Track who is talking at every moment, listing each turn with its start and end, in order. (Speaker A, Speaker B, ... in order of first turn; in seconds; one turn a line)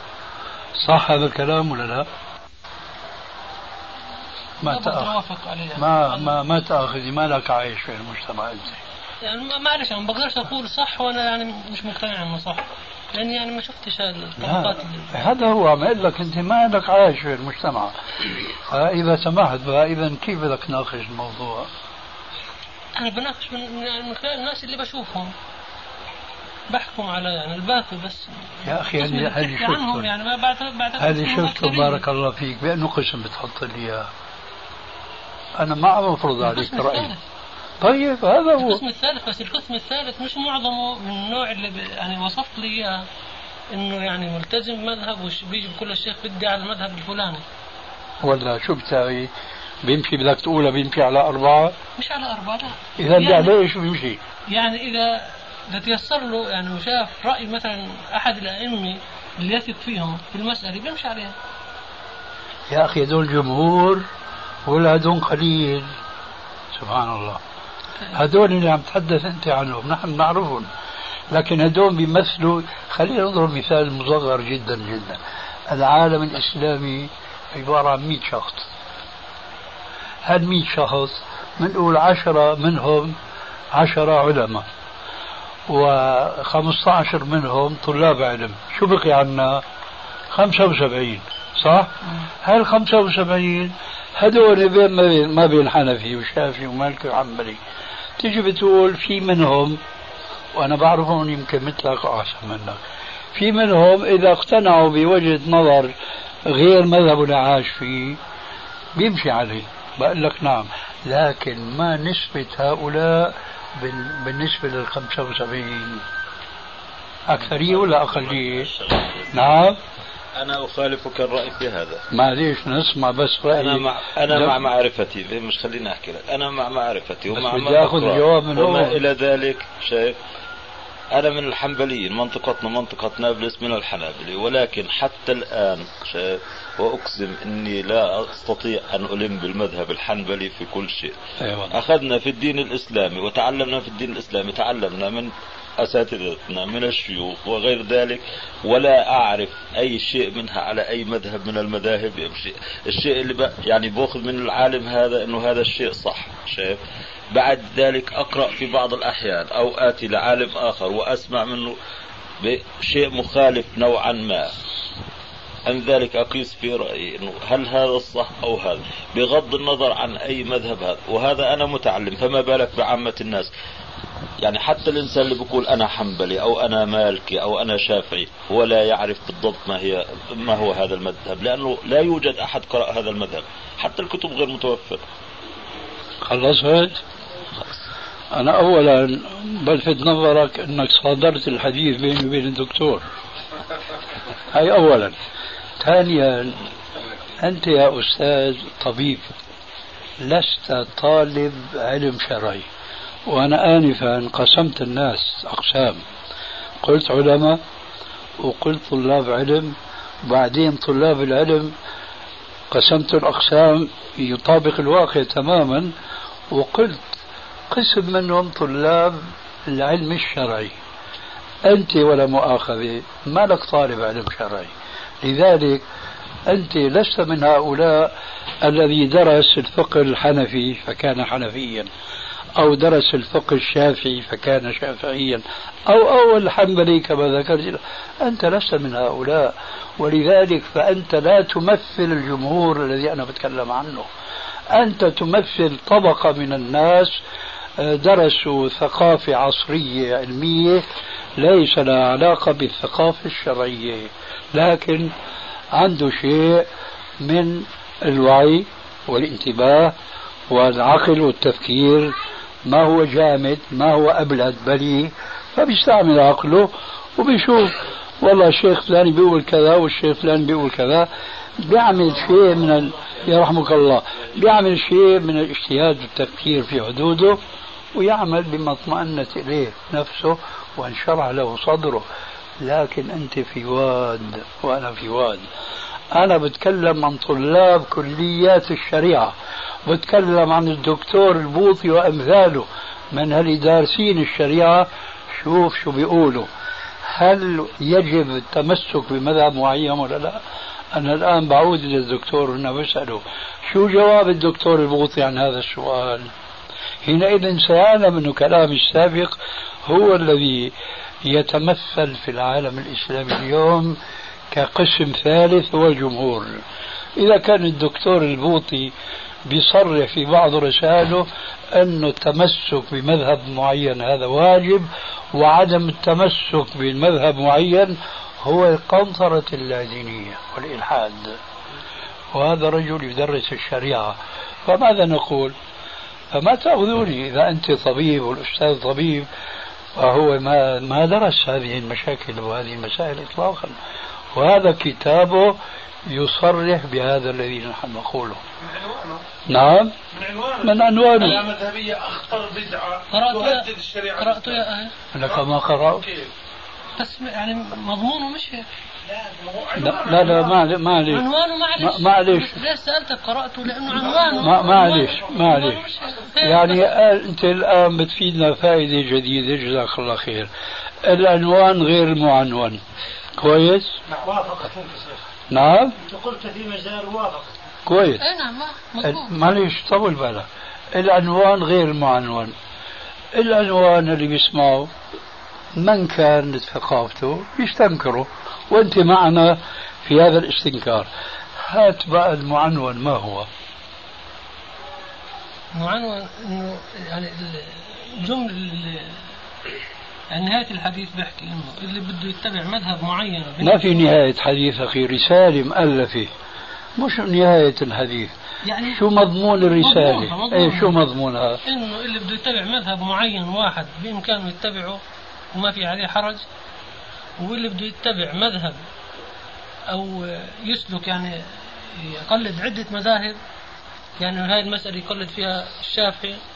Speaker A: 0.8-2.1
Speaker A: 4.6-5.1
Speaker B: 4.6-6.4
Speaker A: 5.8-8.8
Speaker B: 9.2-15.1
Speaker A: 14.4-17.9
Speaker A: 18.6-21.7
Speaker B: 23.0-25.3
Speaker B: 26.7-32.0
Speaker A: 28.6-30.1
Speaker A: 31.0-34.1
Speaker A: 35.6-37.1
Speaker B: 36.4-37.2
Speaker A: 37.8-38.8
Speaker B: 38.6-43.0
Speaker B: 43.7-47.4
Speaker A: 48.2-49.3
Speaker A: 49.8-51.7
Speaker B: 52.0-53.5
Speaker A: 53.0-54.2
Speaker B: 54.5-61.3
Speaker A: 62.7-64.0
Speaker A: 64.7-65.9
Speaker A: 66.7-67.4
Speaker A: 68.1-70.7
Speaker A: 71.3-78.7
Speaker A: 80.2-83.1
Speaker A: 83.7-84.7
Speaker A: 85.7-89.6
Speaker A: 90.3-97.6
Speaker A: 98.2-99.8
Speaker A: 100.5-102.8
Speaker A: 103.3-105.9
Speaker A: 106.5-108.2
Speaker A: 109.0-116.0
Speaker A: 117.3-118.7
Speaker C: 117.5-119.5
Speaker A: 119.3-119.8
Speaker C: 120.3-122.0
Speaker A: 122.1-124.5
Speaker C: 123.5-130.2
Speaker A: 127.3-129.0
Speaker C: 131.1-141.2
Speaker A: 141.4-141.8
Speaker C: 141.7-156.8
Speaker C: 157.3-161.8
Speaker C: 162.4-164.5
Speaker C: 165.7-173.5
Speaker C: 174.4-185.0
Speaker A: 186.2-187.0
Speaker A: 188.3-193.0
Speaker A: 194.5-195.2
Speaker A: 195.8-196.6
Speaker A: 197.4-199.3
Speaker A: 200.2-202.7
Speaker A: 203.3-206.0
Speaker A: 206.8-207.6
Speaker A: 208.4-211.7
Speaker A: 212.7-215.9
Speaker A: 216.5-220.7
Speaker A: 221.6-225.8
Speaker A: 226.5-231.9
Speaker A: 232.6-244.1
Speaker A: 244.7-247.1
Speaker A: 247.8-250.8
Speaker A: 251.4-255.1
Speaker A: 255.7-256.6
Speaker A: 257.2-259.9
Speaker A: 260.5-262.1
Speaker A: 262.6-271.1
Speaker A: 271.6-277.4
Speaker A: 277.9-282.1
Speaker A: 282.6-285.4
Speaker A: 286.1-289.3
Speaker A: 289.9-296.5
Speaker A: 297.1-300.4
Speaker A: 300.9-306.3
Speaker A: 307.0-309.3
Speaker A: 309.8-310.7
Speaker A: 311.2-314.0
Speaker A: 314.5-316.5
Speaker A: 317.1-318.9
Speaker A: 319.4-331.4
Speaker A: 332.3-335.5
Speaker A: 336.3-339.3
Speaker A: 339.9-343.8
Speaker A: 344.3-348.4
Speaker D: 348.6-349.2
Speaker A: 349.5-349.9
Speaker D: 350.1-354.6
Speaker A: 350.6-351.4
Speaker B: 353.1-354.9
Speaker A: 355.1-356.0
Speaker D: 355.2-356.2
Speaker B: 357.0-358.7
Speaker D: 359.1-360.6
Speaker A: 359.8-362.5
Speaker B: 361.1-366.8
Speaker D: 363.9-365.5
Speaker A: 364.3-365.9
Speaker A: 366.4-370.5
Speaker A: 371.0-372.8
Speaker A: 373.4-373.9
Speaker E: 374.1-375.2
Speaker A: 375.5-375.9
Speaker E: 375.9-377.5
Speaker A: 377.9-378.2
Speaker B: 378.2-379.5
Speaker A: 379.0-382.5
Speaker A: 383.4-384.9
Speaker A: 385.8-391.1
Speaker A: 391.6-393.5
Speaker B: 395.8-399.2
Speaker B: 400.3-404.1
Speaker A: 403.6-406.3
Speaker A: 407.0-408.3
Speaker B: 408.7-411.0
Speaker A: 408.9-411.6
Speaker B: 411.6-415.0
Speaker B: 415.5-416.4
Speaker B: 417.4-418.8
Speaker B: 419.9-423.4
Speaker B: 424.2-426.4